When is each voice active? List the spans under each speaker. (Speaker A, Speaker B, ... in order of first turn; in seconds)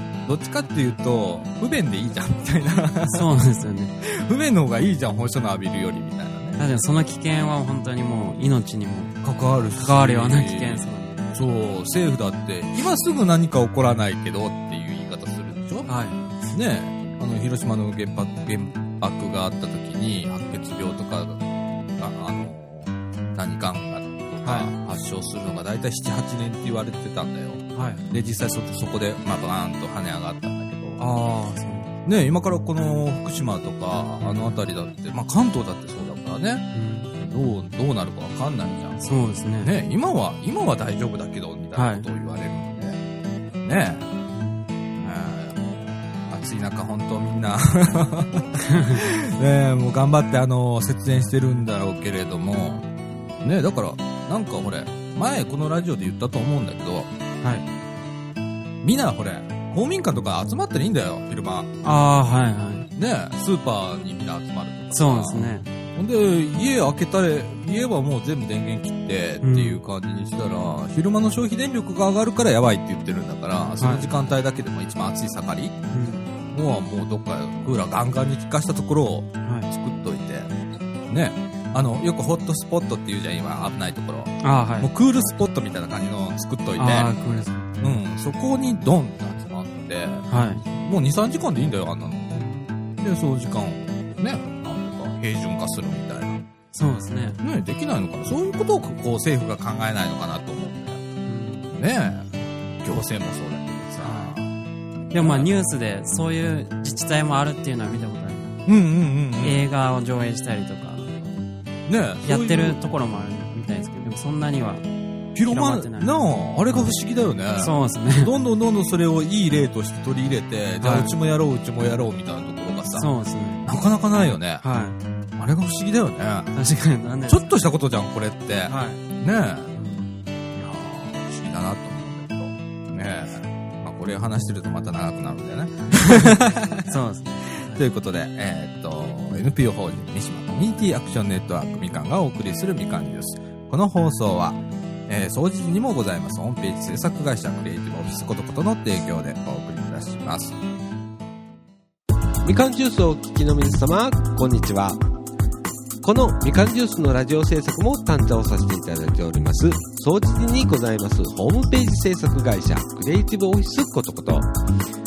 Speaker A: 0.2-3.3, 4.0-6.6, 9.2-15.9, 16.5-31.0, 32.0-39.0, 39.6-43.0, 43.6-44.0, 45.0-52.9, 53.4-57.1, 58.8-61.7, 63.0-75.8, 76.5-80.5, 81.1-87.1, 87.8-92.4, 93.0-96.4, 97.4-101.0, 101.7-104.5, 105.1-105.5, 108.7-109.6, 111.9-112.8, 115.3-123.1, 123.6-124.6, 125.4-126.5, 127.3-129.7, 130.5-136.9, 137.5-150.6
Speaker B: 3.0-3.9, 6.6-9.1, 9.8-11.2, 15.9-16.2, 24.4-24.7, 27.7-28.1, 31.0-31.9, 34.2-34.5, 36.7-37.1, 39.0-39.7, 41.7-42.0, 44.3-44.6, 48.6-49.0, 61.8-62.9, 64.9-65.7, 69.4-69.8, 73.8-74.0, 75.9-76.3, 79.4-79.7, 84.4-84.9, 86.8-87.7, 90.3-90.6, 92.3-92.6, 96.7-97.4, 101.3-101.7, 104.0-104.3, 105.1-108.5, 109.4-111.2, 112.2-114.8, 115.5-116.1, 117.6-118.3, 120.8-121.1, 122.9-123.6, 124.6-125.0, 126.5-127.6, 128.7-129.0, 129.8-130.1, 136.0-137.8
Speaker C: 152.4-155.0, 156.0-164.5